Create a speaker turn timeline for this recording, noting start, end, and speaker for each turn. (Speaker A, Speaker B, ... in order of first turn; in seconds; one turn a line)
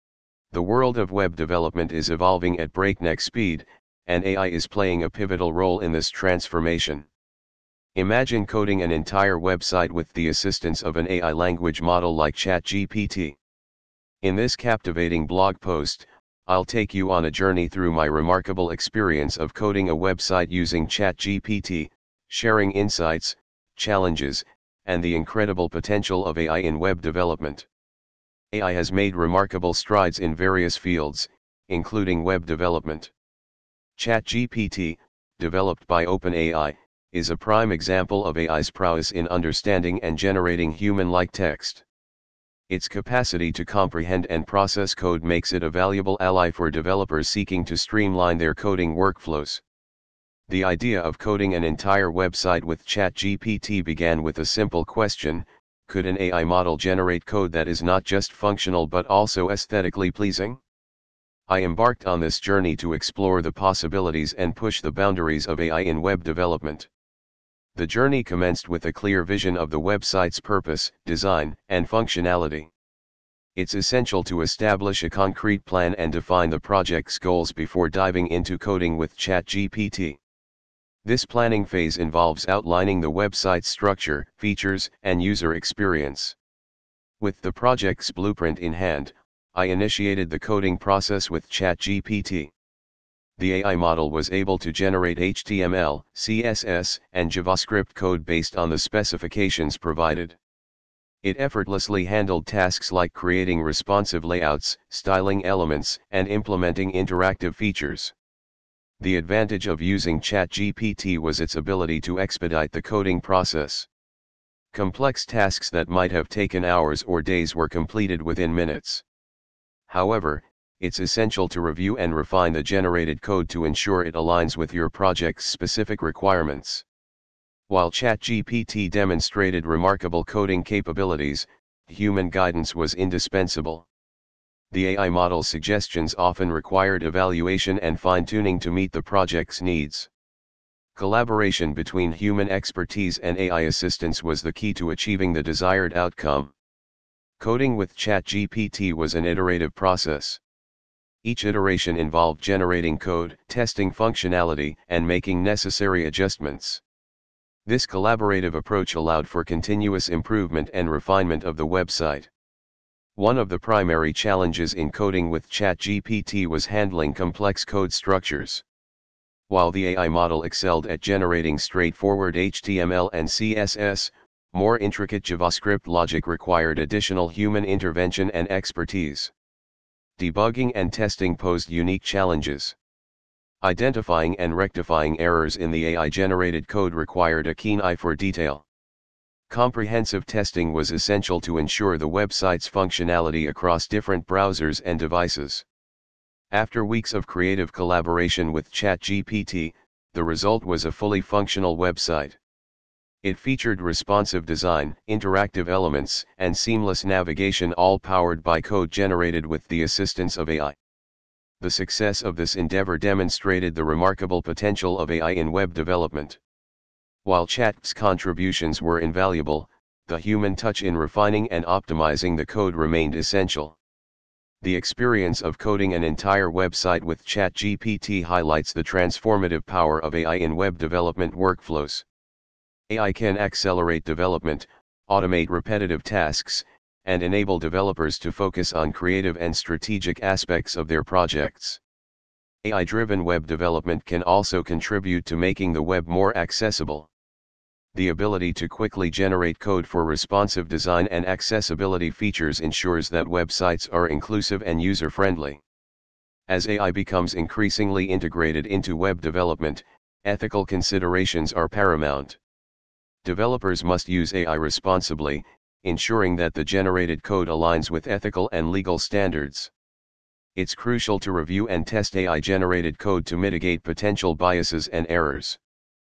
Speaker A: 0.5-7.1
Speaker A: 8.0-13.4
Speaker A: 14.2-27.7
Speaker A: 28.5-33.1
Speaker A: 34.0-41.8
Speaker A: 42.7-49.6
Speaker A: 50.5-60.6
Speaker A: 61.5-66.9
Speaker A: 67.8-72.7
Speaker A: 73.6-80.2
Speaker A: 81.0-86.4
Speaker A: 87.2-92.5
Speaker A: 93.4-100.4
Speaker A: 101.2-108.1
Speaker A: 109.0-113.9
Speaker A: 114.7-119.0
Speaker A: 119.9-126.8
Speaker A: 127.7-133.9
Speaker A: 134.7-140.1
Speaker A: 140.9-146.5
Speaker A: 147.4-150.4
Speaker A: 151.2-156.8
Speaker A: 157.7-162.3
Speaker A: 163.2-168.6
Speaker A: 169.5-179.3
Speaker A: 180.2-182.8
Speaker A: 183.6-188.7
Speaker A: 189.5-195.7
Speaker A: 196.5-202.4
Speaker A: 203.2-210.8
Speaker A: 211.6-216.4
Speaker A: 217.2-223.8
Speaker A: 224.6-232.1
Speaker A: 232.9-241.8
Speaker A: 242.6-247.1
Speaker A: 247.9-255.6
Speaker A: 256.5-262.4
Speaker A: 263.2-269.7
Speaker A: 270.6-275.6